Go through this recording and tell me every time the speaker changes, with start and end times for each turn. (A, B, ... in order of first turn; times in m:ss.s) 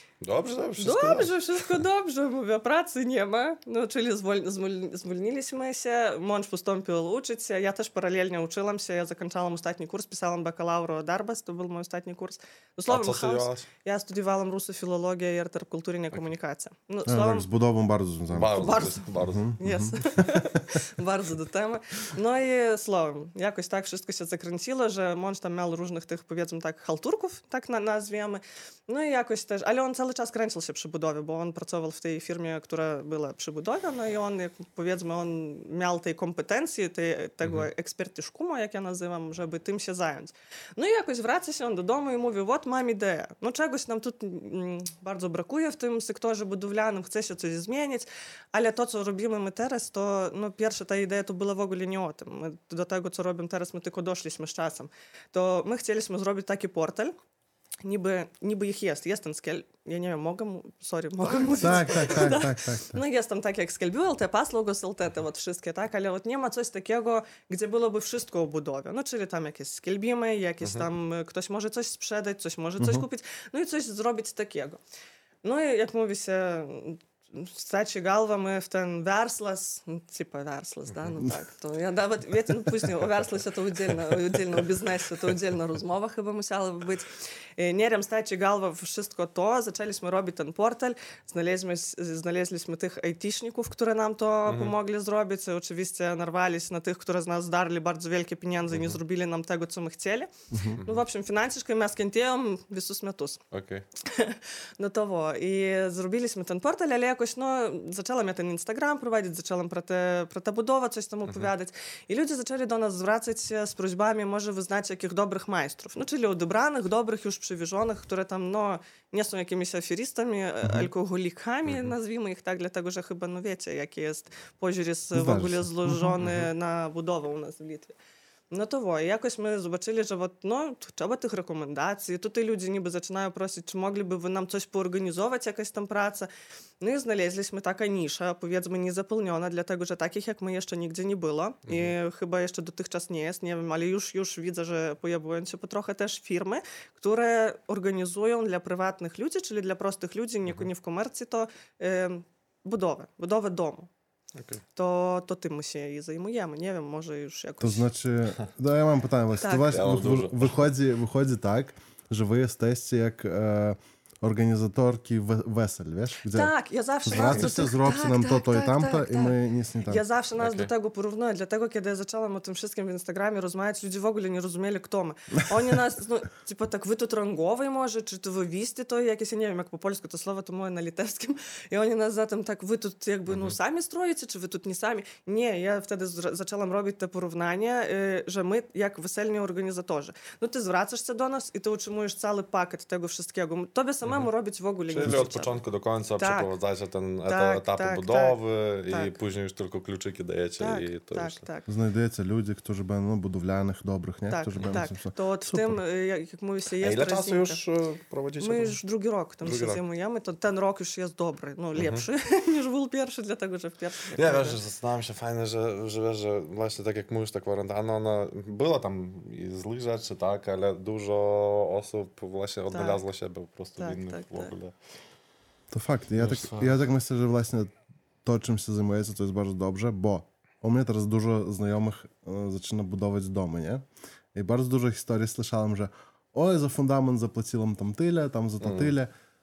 0:00.2-0:01.7 A
0:00.8-0:17.5 B
0:12.9-0:13.7 A
0:17.1-0:20.8 C
0:18.3-0:19.5 A
0:18.6-0:57.1 B
0:37.4-0:37.7 A
0:57.8-1:14.8 B
1:01.6-1:03.0 C
1:12.8-1:13.1 C
1:15.4-1:40.3 B
1:34.5-1:34.8 A
1:38.7-1:39.0 A
1:40.5-1:40.8 C
1:40.8-1:41.0 A
1:40.8-1:43.4 B
1:43.5-1:43.9 A
1:44.0-2:08.0 B
2:00.6-2:00.9 C
2:01.7-2:01.9 A
2:05.1-2:06.2 C
2:06.2-2:06.5 A
2:08.5-2:16.3 B
2:16.8-2:33.9 B
2:21.7-2:21.9 A
2:34.4-2:34.6 A
2:34.8-2:37.9 B
2:37.6-2:46.5 C
2:39.4-2:39.8 B
2:39.7-2:40.6 A
2:46.3-3:15.6 B
2:47.0-2:50.0 C
2:47.1-2:47.6 A
2:50.4-2:50.7 A
3:03.3-3:03.6 A
3:14.9-3:21.4 A
3:16.2-3:16.5 B
3:17.3-3:18.4 B
3:18.9-3:19.2 B
3:20.6-3:21.7 B
3:21.7-3:25.8 C
3:24.3-3:27.6 B
3:26.8-3:28.8 A
3:28.4-3:34.6 B
3:29.4-3:29.8 A
3:31.8-3:32.0 A
3:34.2-3:44.7 A
3:42.7-3:43.0 B
3:43.8-3:44.5 B
3:45.7-3:47.7 C
3:46.2-3:46.8 A
3:48.2-3:53.8 C
3:54.3-3:59.1 C
3:58.6-3:58.9 A